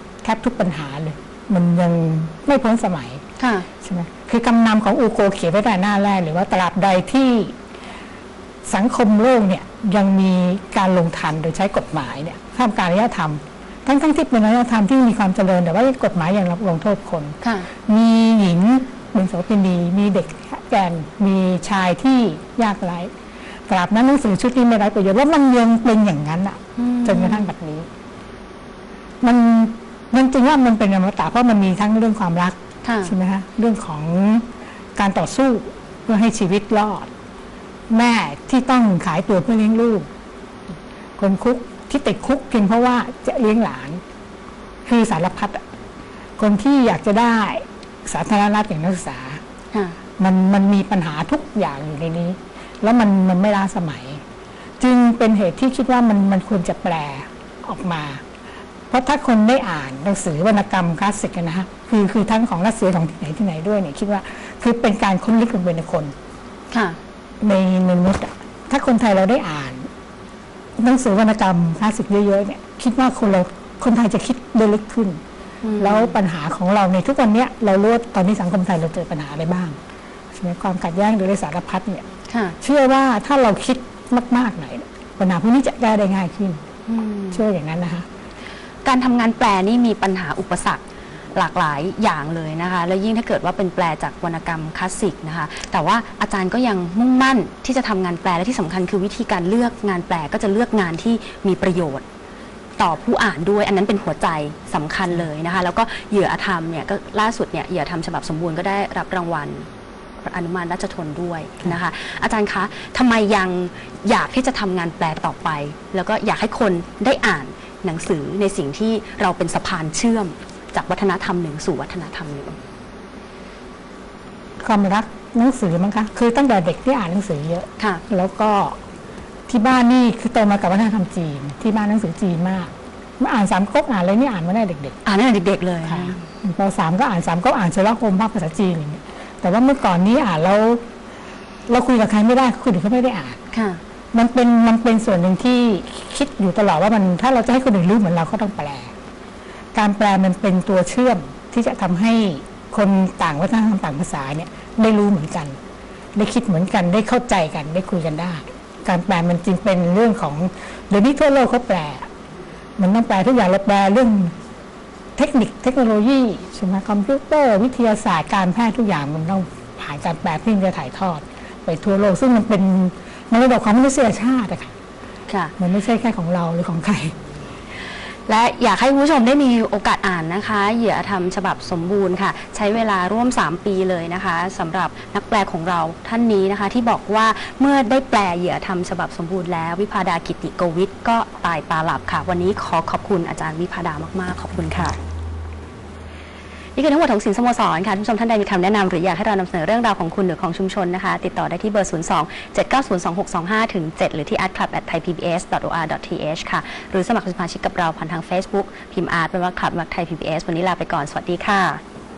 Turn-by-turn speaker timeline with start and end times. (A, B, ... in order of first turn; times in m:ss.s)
0:00.2-0:03.2 A
0:03.4-0:03.7 B
0:03.8-0:07.6 A
0:08.7-0:23.1 A
0:17.4-0:17.7 B
0:23.7-0:27.9 A
0:26.8-0:27.5 B
0:29.2-0:37.1 A
0:32.8-0:33.1 B
0:37.9-0:40.0 A
0:41.2-0:44.0 A
0:44.8-0:45.6 A
0:46.4-0:49.4 A
0:49.7-0:50.0 B
0:50.2-0:54.2 A
0:54.8-0:58.2 A
0:58.9-1:06.1 A
1:06.7-1:07.0 B
1:07.4-1:09.9 A
1:10.8-1:15.2 A
1:15.6-1:16.1 B
1:15.8-1:19.8 A
1:20.3-1:22.0 A
1:22.3-1:22.6 B
1:22.6-1:26.6 A
1:26.9-1:27.4 B
1:27.3-1:28.0 A
1:28.8-1:30.8 B
1:31.3-1:42.0 B
1:42.8-1:49.7 B
1:50.2-2:02.6 B
2:04.6-2:08.8 A
2:09.5-2:15.0 A
2:15.0-2:16.2 B
2:15.8-2:20.8 A
2:21.7-2:23.4 A
2:23.5-2:23.8 B
2:24.1-2:28.9 A
2:29.7-2:35.6 A
2:36.1-2:42.1 A
2:42.8-2:44.3 A
2:45.2-2:54.7 A
2:55.3-2:55.5 B
2:55.6-2:57.1 A
2:58.3-3:15.0 B
3:16.8-3:31.8 B